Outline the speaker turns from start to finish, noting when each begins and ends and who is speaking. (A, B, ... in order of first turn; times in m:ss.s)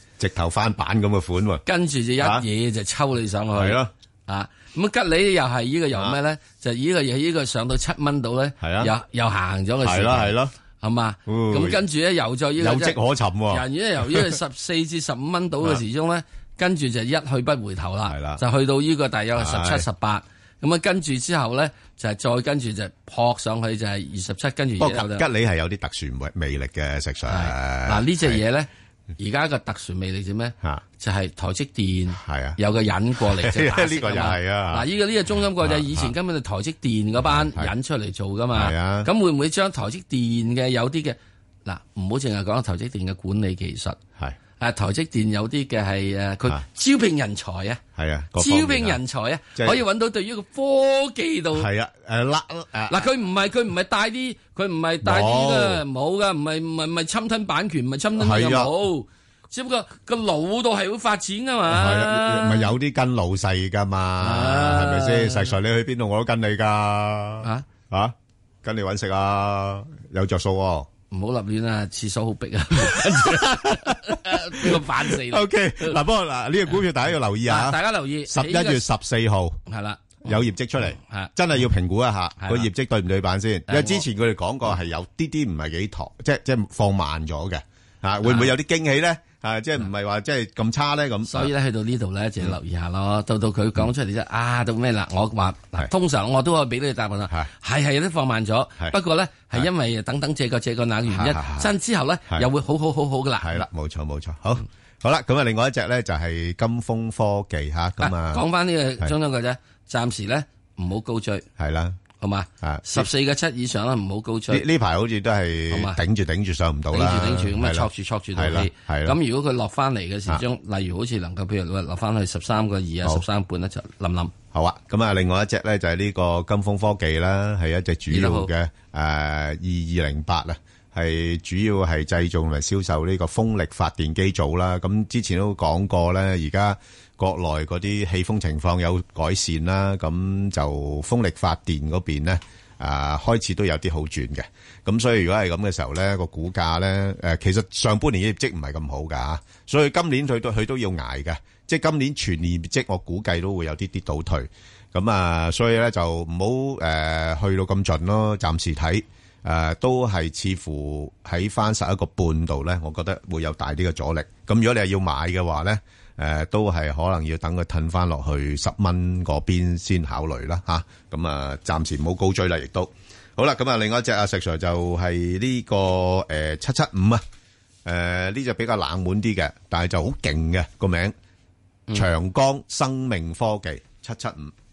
0:00.2-0:01.6 A
0:01.7-0:13.0 B
0:02.2-0:02.5 A
0:03.5-0:03.9 A
0:08.6-0:08.9 A
0:09.8-0:10.5 A
0:11.3-0:11.8 A
0:12.6-0:14.4 A
0:13.5-0:25.3 B
0:18.1-0:18.4 A
0:19.4-0:19.9 A
0:24.8-0:28.4 A
0:27.3-0:44.0 B
0:32.1-0:32.6 A
0:33.2-0:34.9 A
0:35.6-0:36.1 A
0:37.2-0:37.7 A
0:38.5-0:39.1 A
0:44.6-0:47.8 B
0:48.0-0:49.0 A
0:48.4-0:51.7 B
0:49.6-0:49.8 A
0:51.5-0:53.1 A
0:52.9-1:02.7 B
0:55.0-0:55.8 A
0:58.2-0:58.7 A
1:01.7-1:10.9 A
1:04.2-1:05.5 B
1:07.4-1:07.7 B
1:11.1-1:16.0 B
1:12.8-1:19.6 A
1:17.4-1:18.9 B
1:19.7-1:21.4 B
1:20.2-1:31.5 A
1:22.4-1:22.7 B
1:23.7-1:24.1 B
1:28.2-1:28.5 B
1:31.3-1:43.7 B
1:41.1-1:41.7 A
1:43.4-1:48.4 A
1:48.0-1:51.5 B
1:51.6-1:52.0 A
1:52.2-1:54.6 B
1:52.6-1:53.1 A
1:54.5-1:59.2 A
1:55.7-1:56.0 B
1:56.9-2:04.3 B
2:04.5-2:57.2 A
2:08.1-2:08.5 B
2:57.8-3:01.2 A
3:01.9-3:04.5 A